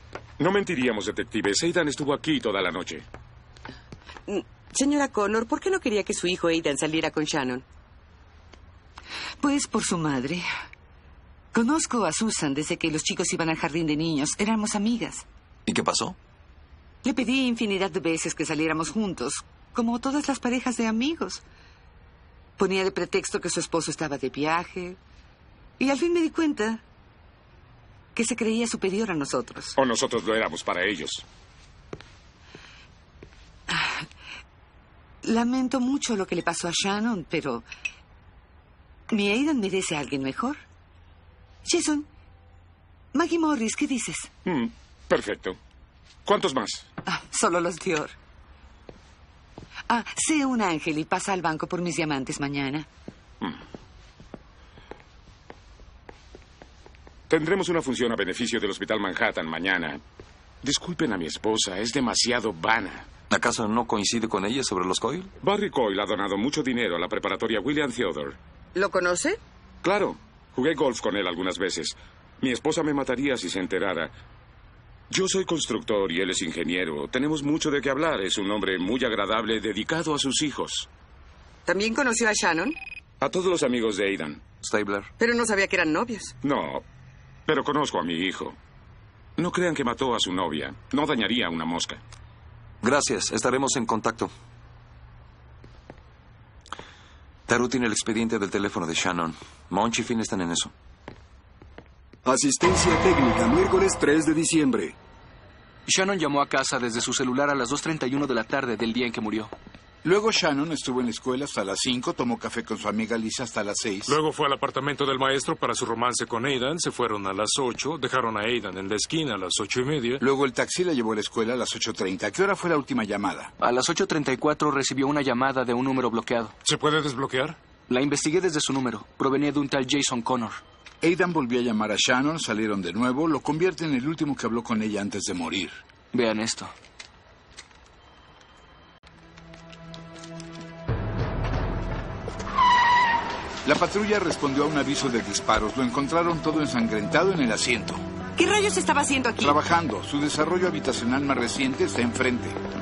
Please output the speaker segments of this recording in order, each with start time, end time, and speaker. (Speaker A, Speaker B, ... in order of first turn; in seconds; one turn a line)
Speaker A: 0.4-3.0
Speaker B: 4.3-7.6
Speaker C: 9.4-10.5
Speaker C: 11.5-15.2
Speaker D: 15.7-16.2
Speaker C: 17.0-21.4
Speaker C: 22.6-25.0
Speaker C: 25.8-26.8
Speaker C: 28.1-29.8
Speaker A: 29.8-31.2
Speaker C: 33.7-34.1
Speaker C: 35.2-37.7
Speaker C: 39.1-40.6
Speaker C: 41.6-42.1
Speaker C: 43.1-44.3
Speaker A: 44.5-45.6
Speaker A: 46.3-46.9
Speaker C: 47.0-48.1
Speaker C: 49.9-52.9
Speaker A: 57.3-60.0
Speaker A: 60.6-63.1
Speaker D: 63.3-65.3
Speaker A: 65.4-68.4
Speaker B: 68.8-69.4
Speaker A: 69.8-74.1
Speaker A: 75.1-80.9
Speaker B: 81.7-82.8
Speaker A: 83.2-84.5
Speaker D: 84.6-85.1
Speaker B: 85.2-86.4
Speaker A: 86.4-86.8
Speaker A: 87.5-88.6
Speaker A: 89.4-92.0
Speaker D: 92.8-94.3
Speaker D: 97.5-100.7
Speaker E: 102.2-105.0
Speaker F: 105.9-107.8
Speaker F: 108.4-109.5
Speaker G: 110.0-114.2
Speaker H: 114.1-120.2
Speaker G: 120.2-123.5
Speaker F: 123.6-126.5
Speaker H: 126.6-127.6
Speaker F: 127.9-130.5
Speaker G: 131.0-135.8
Speaker F: 136.1-136.7
Speaker G: 143.7-148.0
Speaker B: 148.4-149.6
Speaker G: 149.4-152.6